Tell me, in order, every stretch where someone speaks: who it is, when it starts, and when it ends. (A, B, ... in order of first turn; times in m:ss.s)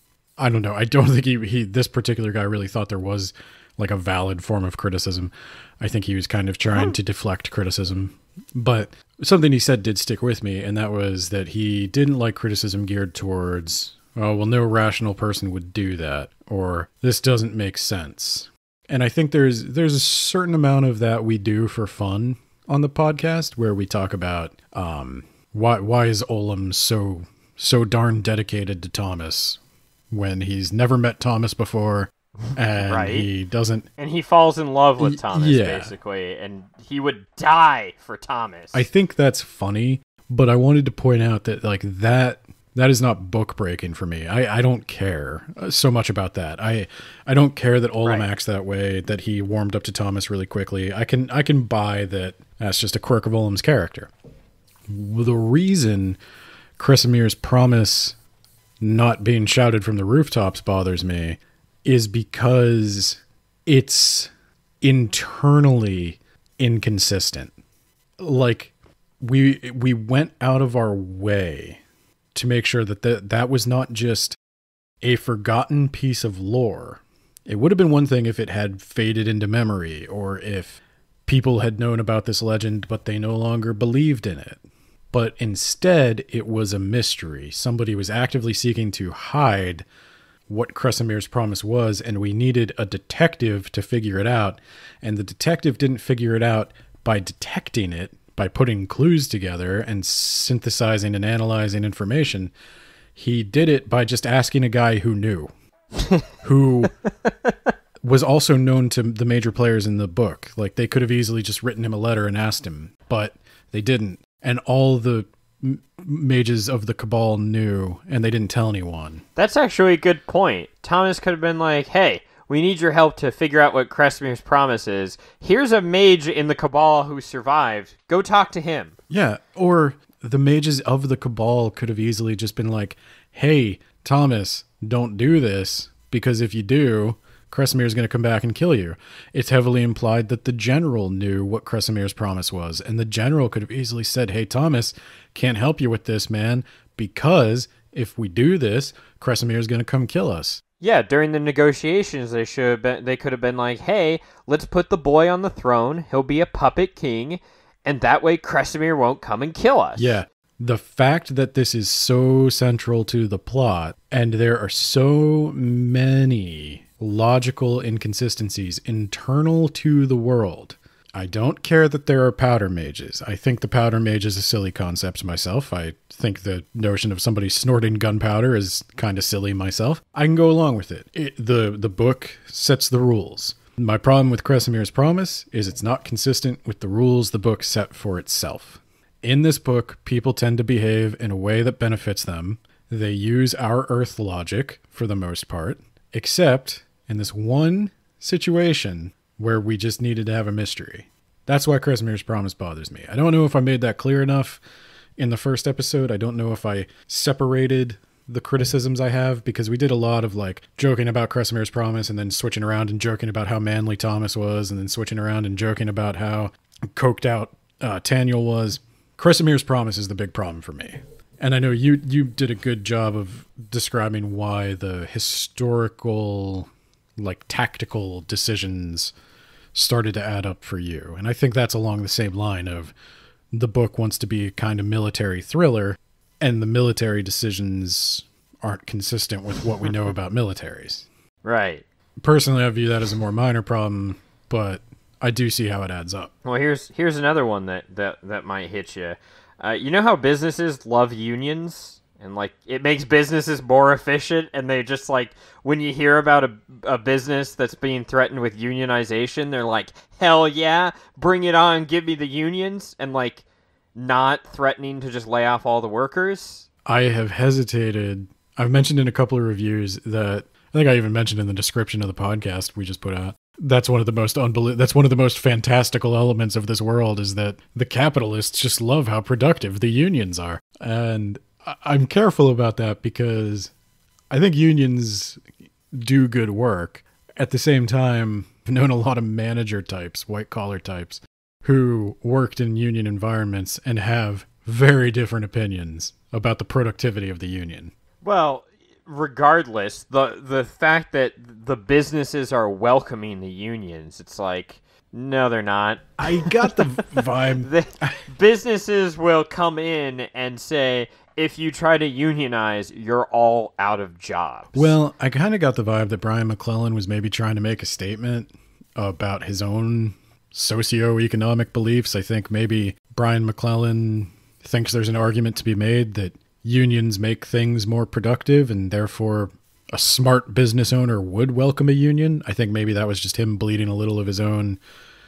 0:00.4-0:29.6 A
0:30.1-0:33.9 A
0:32.8-0:33.3 B
0:34.0-0:38.9 B
0:35.0-0:35.9 A
0:38.7-0:54.1 A
0:48.0-0:48.3 B
0:54.9-0:56.2 A
0:56.8-0:58.2 A
0:58.8-1:07.5 A
1:08.2-1:11.8 A
1:12.4-1:14.4 A
1:15.0-1:29.9 A
1:30.5-1:42.5 A
1:43.2-1:45.5 A
1:46.4-1:46.9 A
1:48.0-1:59.2 A
1:59.4-2:09.0 B
2:09.1-2:30.6 A
2:30.8-2:40.2 B
2:40.0-3:24.6 A
3:25.2-3:49.1 A
3:49.7-3:52.9 A
3:53.5-4:01.1 A
4:01.4-4:01.8 B
4:02.2-4:06.3 A
4:06.4-4:23.4 B
4:24.0-4:26.7 B
4:26.9-4:43.7 A
4:44.3-4:57.9 A
4:58.2-5:15.0 B
5:06.2-5:08.2 A
5:14.7-5:34.8 A